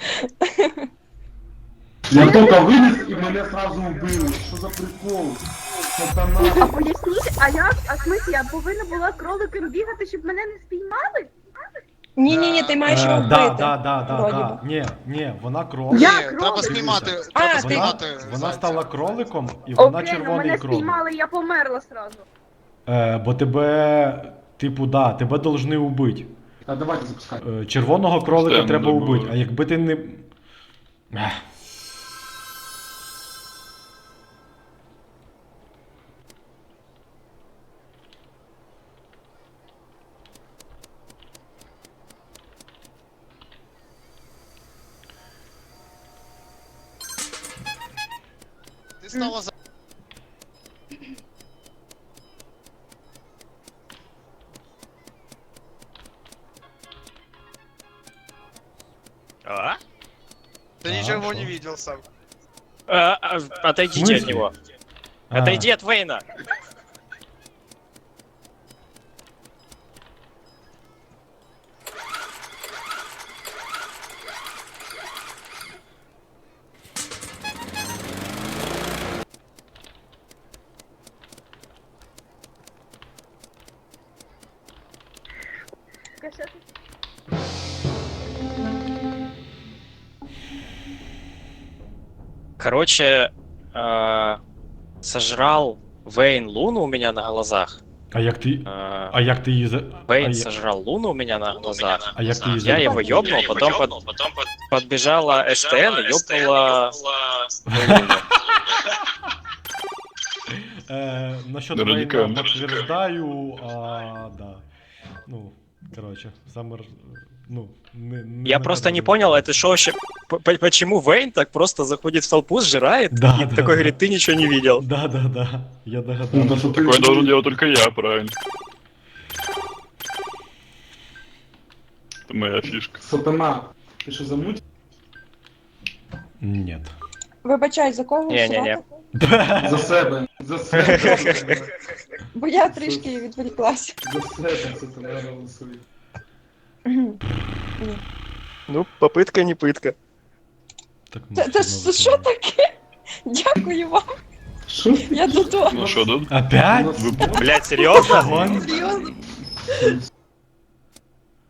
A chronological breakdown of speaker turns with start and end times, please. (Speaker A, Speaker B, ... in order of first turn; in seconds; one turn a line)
Speaker A: 0.5-0.7
Speaker B: 2.1-5.4
Speaker C: 2.1-3.2
Speaker B: 6.0-6.7
Speaker C: 6.4-11.3
Speaker A: 12.2-14.6
Speaker B: 12.3-12.6
Speaker D: 12.8-21.0
Speaker C: 15.9-16.8
Speaker E: 16.0-18.9
Speaker A: 17.3-18.0
Speaker C: 19.8-22.2
Speaker D: 22.9-26.3
Speaker B: 26.7-27.4
Speaker D: 27.4-30.3
Speaker F: 28.4-29.2
Speaker D: 31.1-31.4
Speaker E: 49.0-49.5
Speaker G: 59.5-59.8
Speaker E: 60.8-62.0
Speaker D: 60.9-61.5
Speaker G: 62.9-64.5
Speaker D: 63.9-64.5
Speaker D: 65.3-65.7
Speaker G: 65.3-66.2
Speaker C: 86.2-86.6
Speaker G: 92.6-94.4
Speaker G: 95.0-97.8
Speaker D: 98.1-100.5
Speaker G: 98.7-99.2
Speaker G: 100.1-107.0
Speaker D: 102.1-103.4
Speaker A: 102.7-103.2
Speaker G: 107.7-108.2
Speaker D: 107.7-108.2
Speaker D: 110.5-114.6
Speaker F: 111.7-112.3
Speaker D: 115.3-119.5
Speaker G: 118.4-124.8
Speaker D: 123.1-124.0
Speaker D: 124.8-126.8
Speaker B: 126.3-127.4
Speaker F: 126.8-128.3
Speaker F: 132.3-133.0
Speaker B: 133.0-134.6
Speaker D: 136.4-136.9
Speaker A: 137.4-138.8
Speaker G: 138.3-138.8
Speaker D: 139.2-139.9
Speaker B: 139.6-141.7
Speaker G: 140.8-141.6
Speaker A: 142.3-144.0
Speaker B: 142.7-143.2
Speaker B: 144.0-145.8
Speaker A: 146.9-147.2
Speaker G: 148.7-149.9
Speaker D: 151.1-152.3
Speaker A: 151.3-152.7
Speaker A: 153.3-154.1
Speaker B: 154.7-156.1
Speaker A: 155.0-156.0
Speaker F: 155.8-156.3
Speaker D: 156.3-157.2
Speaker B: 156.7-157.6
Speaker F: 157.0-157.4
Speaker A: 157.2-159.2
Speaker G: 157.4-158.6
Speaker D: 157.9-158.7